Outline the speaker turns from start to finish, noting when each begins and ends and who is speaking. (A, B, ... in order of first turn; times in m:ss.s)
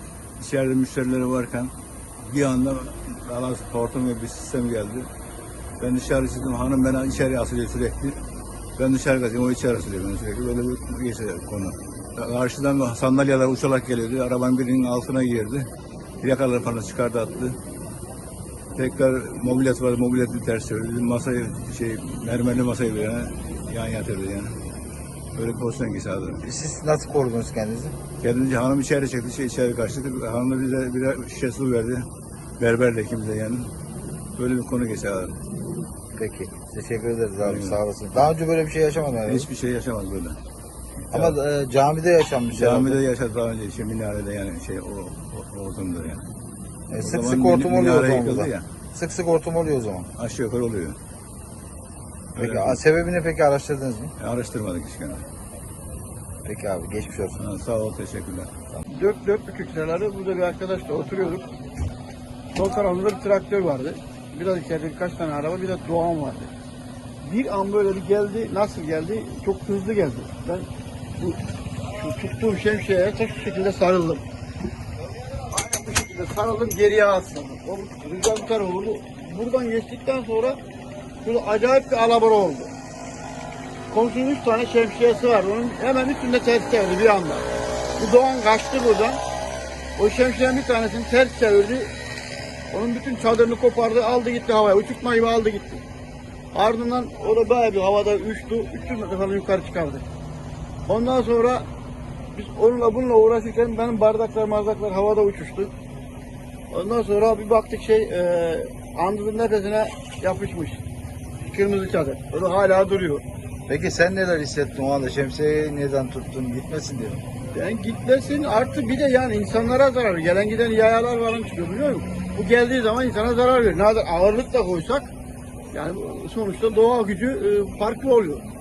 0:00.4-0:05.1 A
0:05.8-0:08.2 A
0:08.8-0:15.7 A
0:16.2-0:17.6 A
0:18.8-0:24.5 A
0:25.4-0:26.4 A
0:26.4-0:28.0 B
0:28.2-0:32.1 A
0:32.6-0:33.7 A
0:34.4-0:35.4 A
0:36.1-0:39.5 B
0:37.4-0:37.8 A
0:39.2-0:40.4 A
0:41.1-0:41.4 A
0:41.1-0:43.0 B
0:42.5-0:46.2 A
0:46.9-0:50.1 B
0:46.9-0:48.6 A
0:50.2-0:51.0 A
0:52.3-0:52.8 A
0:52.4-0:54.1 B
0:54.2-0:55.2 A
0:56.4-0:57.4 B
0:57.4-0:58.5 A
0:58.8-1:01.5 C
1:02.5-1:06.5 C
1:07.2-1:11.4 C
1:11.9-1:14.2 C
1:15.4-1:20.6 C
1:21.2-1:22.7 C
1:23.9-1:27.5 C
1:28.0-1:29.2 C
1:30.0-1:31.9 C
1:32.7-1:35.8 C
1:36.5-1:40.0 C
1:40.8-1:41.7 C
1:42.3-1:45.7 C
1:46.7-1:50.8 C
1:51.4-1:53.2 C
1:53.7-1:57.2 B
1:57.5-2:05.1 C
2:05.7-2:08.4 C